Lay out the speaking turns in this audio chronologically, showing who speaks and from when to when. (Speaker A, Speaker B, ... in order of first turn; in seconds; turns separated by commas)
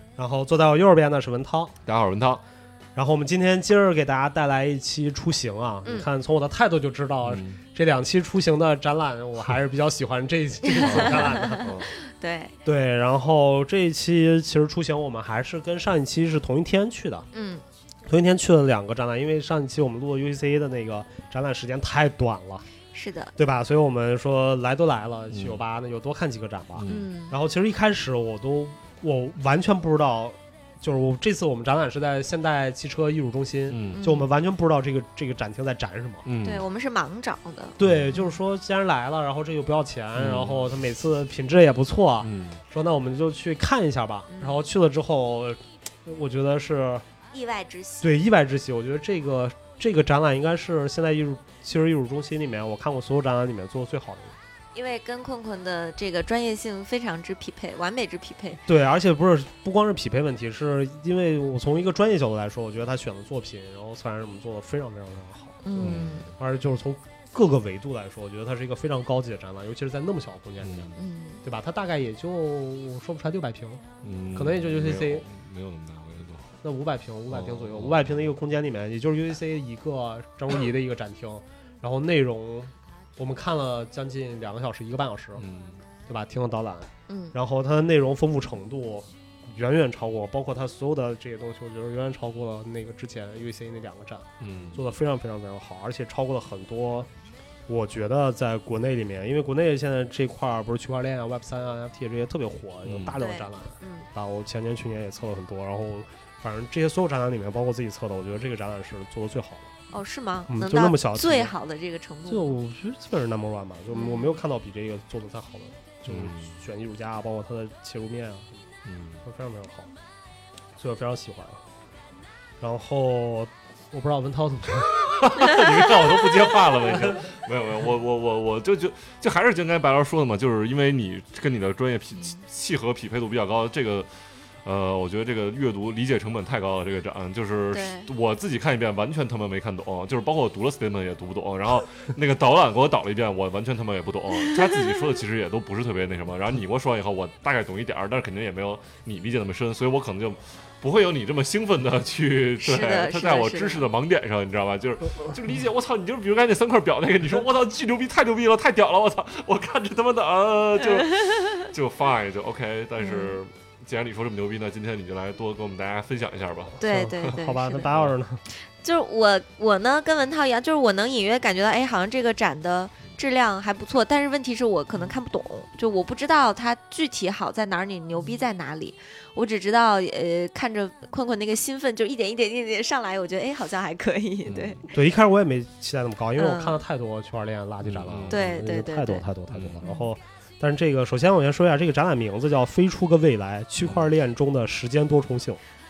Speaker A: 0.1-1.7, Speaker B: 1.8-2.4, Speaker A: 2.9-11.6, Speaker B: 7.2-7.6, Speaker C: 10.7-12.5, Speaker B: 10.8-11.9, Speaker A: 12.6-17.3, Speaker C: 17.3-17.6, Speaker A: 18.1-22.6, Speaker C: 22.9-23.3, Speaker A: 23.4-36.2, Speaker B: 25.3-25.6, Speaker B: 26.7-27.1, Speaker C: 26.9-27.3, Speaker B: 33.7-34.0, Speaker C: 33.9-34.3, Speaker B: 36.2-36.6, Speaker C: 36.4-38.3, Speaker A: 37.8-47.0, Speaker B: 37.8-38.1, Speaker B: 40.1-40.7, Speaker B: 42.2-42.6, Speaker C: 44.3-44.6, Speaker C: 47.3-48.0, Speaker A: 48.0-54.4, Speaker C: 54.7-58.6, Speaker A: 58.6-75.2, Speaker C: 65.6-66.3, Speaker B: 65.8-66.3, Speaker B: 70.6-71.0, Speaker C: 71.0-71.4, Speaker B: 74.0-76.5, Speaker A: 76.6-85.4, Speaker B: 77.3-78.3, Speaker B: 85.4-85.8, Speaker A: 86.1-97.1, Speaker C: 87.1-87.3, Speaker B: 94.4-94.8, Speaker A: 97.7-109.7, Speaker B: 102.8-103.2, Speaker C: 103.2-104.1, Speaker C: 109.9-112.5, Speaker A: 110.5-111.5, Speaker A: 112.3-118.7, Speaker C: 113.9-114.4, Speaker B: 116.1-116.6, Speaker B: 118.8-119.2, Speaker A: 119.2-119.9, Speaker A: 120.8-121.6, Speaker A: 122.6-127.2, Speaker B: 125.3-167.3, Speaker C: 132.2-132.4, Speaker C: 137.7-138.1, Speaker C: 144.5-144.8, Speaker C: 152.6-153.9, Speaker C: 160.9-161.6, Speaker C: 163.0-163.4, Speaker A: 166.8-168.4, Speaker C: 166.8-167.9, Speaker C: 168.5-184.8, Speaker B: 184.4-184.8, Speaker A: 184.8-195.6, Speaker C: 186.3-186.8, Speaker B: 187.8-188.6, Speaker C: 188.3-189.2, Speaker B: 189.5-189.8, Speaker C: 189.8-190.1